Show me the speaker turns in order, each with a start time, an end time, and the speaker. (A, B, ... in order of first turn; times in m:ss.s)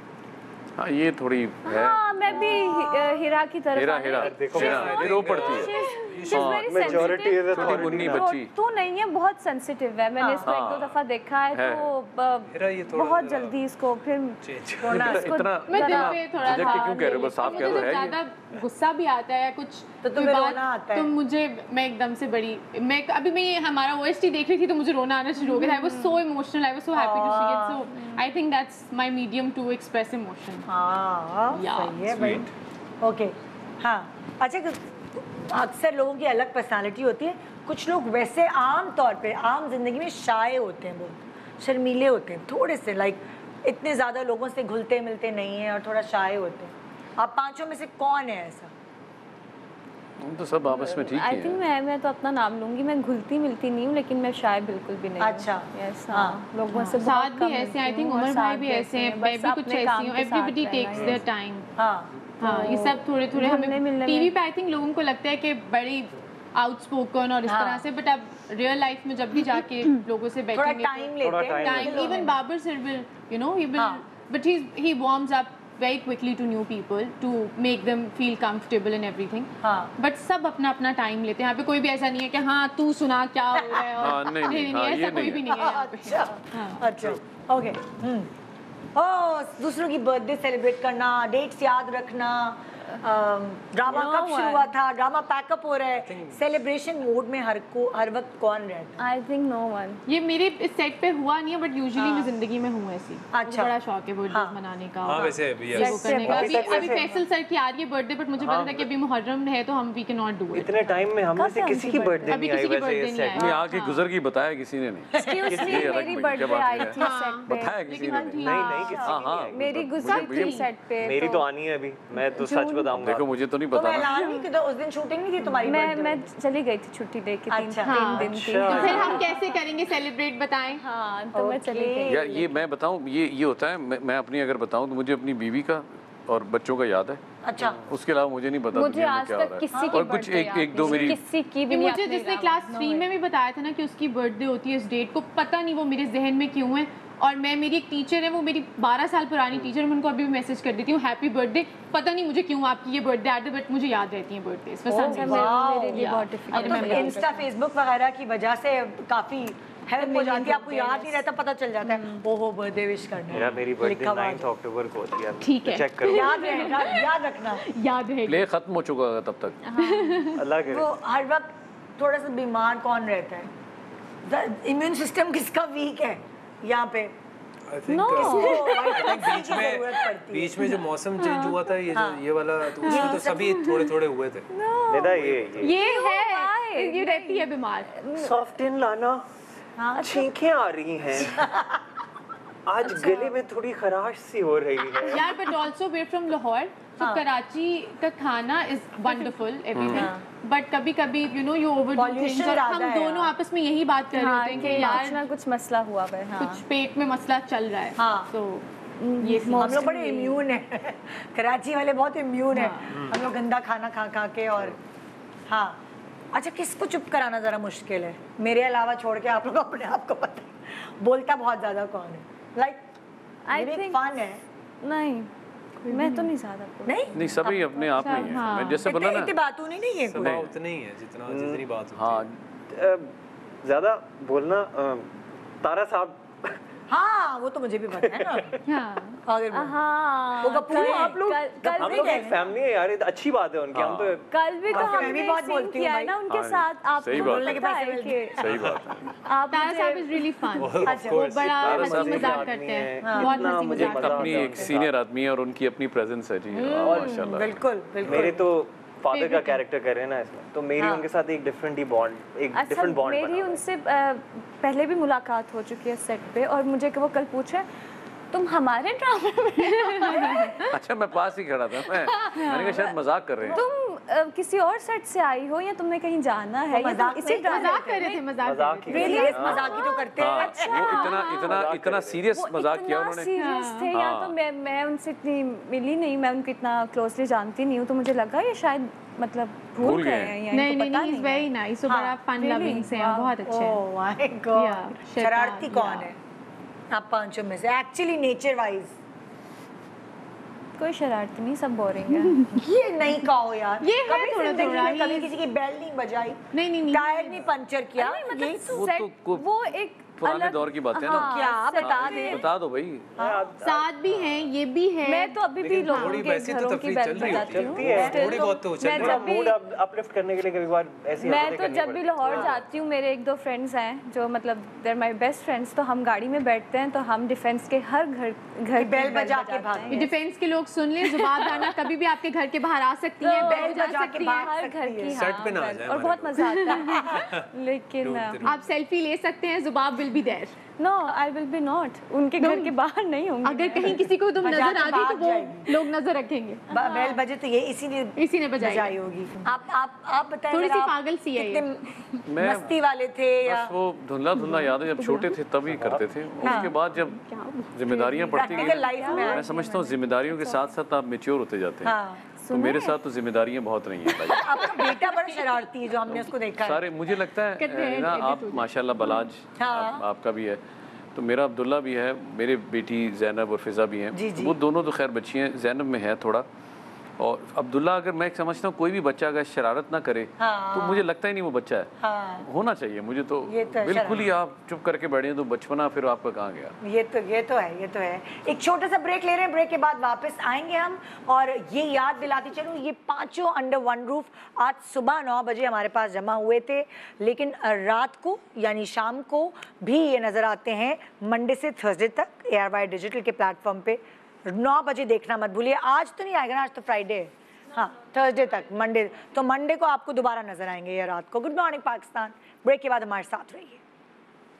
0:00.8-0:02.0 A
0:01.6-0:17.9 B
0:02.4-0:03.0 C
0:03.7-0:05.7 A
0:04.2-0:04.9 D
0:04.4-0:06.8 E
0:05.5-0:05.9 F
0:06.3-0:08.5 A
0:06.6-0:08.3 D
0:10.2-0:10.4 C
0:10.4-0:11.0 A
0:11.5-0:11.9 A
0:12.5-0:13.6 E
0:14.4-0:15.1 E
0:14.8-0:15.4 C
0:14.9-0:18.2 A
0:15.7-0:30.7 F
0:20.0-0:21.1 C
0:25.6-0:26.2 B
0:26.9-0:27.9 C
0:30.7-0:32.5 C
0:31.5-0:32.3 F
0:32.1-0:32.5 E
0:33.0-0:48.7 C
0:50.2-0:51.6 A
0:50.7-1:01.2 B
0:55.2-0:56.4 C
0:56.7-1:01.7 F
1:01.8-1:02.1 C
1:02.4-1:26.9 F
1:02.4-1:04.3 B
1:07.4-1:07.8 C
1:10.5-1:12.4 C
1:11.2-1:12.1 D
1:13.8-1:14.0 C
1:19.6-1:19.9 C
1:24.0-1:25.5 A
1:25.5-1:28.3 C
1:28.9-1:39.0 C
1:33.8-1:34.7 B
1:36.1-1:36.4 E
1:39.0-1:40.0 B
1:40.1-1:51.0 F
1:42.0-1:42.3 C
1:43.3-1:43.7 C
1:44.3-1:44.6 C
1:45.0-1:46.7 E
1:45.7-1:47.0 B
1:46.2-1:47.1 D
1:48.4-1:48.9 D
1:50.5-1:53.5 D
1:51.4-1:52.4 B
1:52.3-1:54.0 F
1:53.3-2:00.6 A
1:55.2-1:55.9 C
1:55.2-1:58.1 B
1:55.5-1:56.0 D
1:57.0-1:59.0 F
1:58.3-1:59.9 D
1:58.8-2:01.5 B
2:00.0-2:00.7 F
2:01.0-2:03.2 D
2:02.2-2:02.9 B
2:02.9-2:04.1 A
2:03.7-2:06.3 C
2:04.1-2:04.4 B
2:05.6-2:09.6 B
2:07.5-2:08.2 C
2:07.8-2:10.8 F
2:08.2-2:09.3 D
2:08.7-2:09.1 C
2:10.7-2:12.5 B
2:11.3-2:12.4 C
2:12.1-2:17.2 A
2:17.4-2:17.8 C
2:17.8-2:21.2 A
2:18.7-2:23.1 B
2:19.7-2:20.2 C
2:21.7-2:37.3 F
2:34.9-2:37.4 B
2:34.9-2:44.5 C
2:40.0-2:41.2 B
2:40.1-2:40.6 F
2:41.8-2:42.2 B
2:43.3-2:46.6 D
2:45.4-2:48.4 F
2:46.0-2:47.6 C
2:48.2-2:49.6 A
2:49.7-2:50.4 B
2:49.8-2:50.4 F
2:50.4-2:50.9 D
2:50.7-2:53.5 C
2:54.2-2:57.1 C
2:57.7-3:04.5 E
2:57.9-2:59.5 B
2:58.2-3:00.7 C
3:01.2-3:01.5 B
3:01.9-3:02.2 C
3:02.8-3:03.8 C
3:02.8-3:03.1 F
3:04.5-3:08.3 B
3:04.9-3:05.8 D
3:05.1-3:05.5 E
3:05.6-3:07.9 F
3:08.1-3:09.2 D
3:09.8-3:10.3 C
3:10.0-3:11.5 D
3:11.4-3:11.7 C
3:12.6-3:15.3 D
3:12.8-3:13.3 B
3:15.1-3:25.2 F
3:17.0-3:17.2 C
3:19.7-3:20.1 A
3:19.9-3:20.2 C
3:21.9-3:23.3 C
3:24.1-3:26.6 B
3:26.4-3:28.6 F
3:28.0-3:28.3 C
3:29.0-3:30.4 B
3:29.2-3:30.0 F
3:29.6-3:34.8 C
3:32.5-3:32.9 F
3:35.5-3:35.8 C
3:36.3-3:42.8 C
3:43.5-3:44.0 B
3:43.5-3:44.4 C
3:44.8-3:45.3 B
3:45.8-3:47.3 B
3:45.9-3:46.3 F
3:46.8-3:50.4 C
3:47.1-3:49.4 A
3:48.0-3:48.8 F
3:50.0-3:52.2 E
3:50.1-3:50.6 A
3:51.3-3:51.6 D
3:51.9-3:52.4 A
3:52.7-3:56.6 D
3:56.9-3:58.6 C
3:58.0-3:58.6 D
3:58.6-3:59.2 F
3:59.2-3:59.8 C
3:59.5-4:02.3 B
4:00.4-4:02.5 C
4:01.8-4:05.1 D
4:03.7-4:04.2 A
4:04.3-4:08.4 B
4:04.7-4:06.2 C
4:06.3-4:07.6 A
4:07.1-4:08.4 C
4:08.4-4:09.1 A
4:08.5-4:08.9 E
4:09.2-4:10.2 B
4:09.5-4:14.6 F
4:10.5-4:11.6 E
4:10.8-4:11.3 C
4:11.0-4:14.9 D
4:11.5-4:12.5 A
4:13.0-4:13.6 C
4:13.7-4:18.3 A
4:16.5-4:18.4 C
4:16.7-4:17.2 D
4:18.0-4:23.6 D
4:19.1-4:19.6 F
4:20.8-4:21.1 C
4:22.5-4:27.7 B
4:28.3-4:30.5 B
4:29.9-4:30.5 F
4:30.7-4:33.6 A
4:32.3-4:32.7 F
4:33.5-4:38.2 B
4:36.7-4:38.2 C
4:37.4-4:40.1 F
4:38.4-4:39.7 D
4:38.9-4:39.8 B
4:38.9-4:41.2 C
4:40.2-4:43.3 A
4:40.4-4:41.2 B
4:40.8-4:41.4 F
4:41.4-4:42.2 D
4:42.3-4:51.5 B
4:43.3-4:43.9 F
4:43.9-4:44.3 A
4:49.8-4:50.4 A
4:50.5-4:53.8 F
4:51.8-4:52.2 C
4:52.4-4:53.3 B
4:53.4-4:56.2 C
4:54.5-4:56.1 F
4:56.9-4:58.9 C
5:00.8-5:02.5 B
5:02.5-5:08.8 C
5:03.8-5:05.3 F
5:06.5-5:07.4 F
5:08.0-5:12.4 B
5:08.7-5:09.5 A
5:10.2-5:13.1 A
5:11.1-5:12.4 C
5:13.2-5:13.9 D
5:13.2-5:13.4 C
5:13.6-5:16.2 F
5:15.0-5:19.6 B
5:15.6-5:19.3 E
5:17.2-5:22.6 D
5:17.8-5:18.4 C
5:21.2-5:30.1 B
5:28.7-5:30.1 C
5:29.9-5:34.5 F
5:31.0-5:31.7 B
5:33.2-5:38.6 B
5:33.3-5:35.4 C
5:35.1-5:36.6 E
5:36.9-5:37.2 C
5:37.2-5:37.5 E
5:38.0-5:38.6 E
5:38.4-5:40.6 F
5:40.8-5:44.1 B
5:42.4-5:42.7 F
5:43.4-5:47.2 F
5:44.4-5:45.8 C
5:46.7-5:51.8 C
5:48.2-5:49.0 F
5:50.5-5:51.7 F
5:52.2-5:52.7 A
5:52.4-5:53.7 C
5:53.4-5:57.2 A
5:54.5-5:55.3 B
5:55.7-5:56.1 D
5:56.4-5:56.7 C
5:56.5-6:00.7 B
5:57.7-6:02.0 A
5:58.3-5:59.7 C
6:01.8-6:02.2 C
6:02.4-6:03.0 B
6:02.5-6:04.7 A
6:04.3-6:06.8 C
6:06.1-6:10.6 A
6:07.6-6:09.2 F
6:09.6-6:10.0 C
6:11.1-6:16.4 A
6:14.1-6:14.6 C
6:17.2-6:26.7 A
6:20.4-6:21.0 C
6:22.0-6:22.4 C
6:23.5-6:24.2 C
6:26.8-6:53.8 C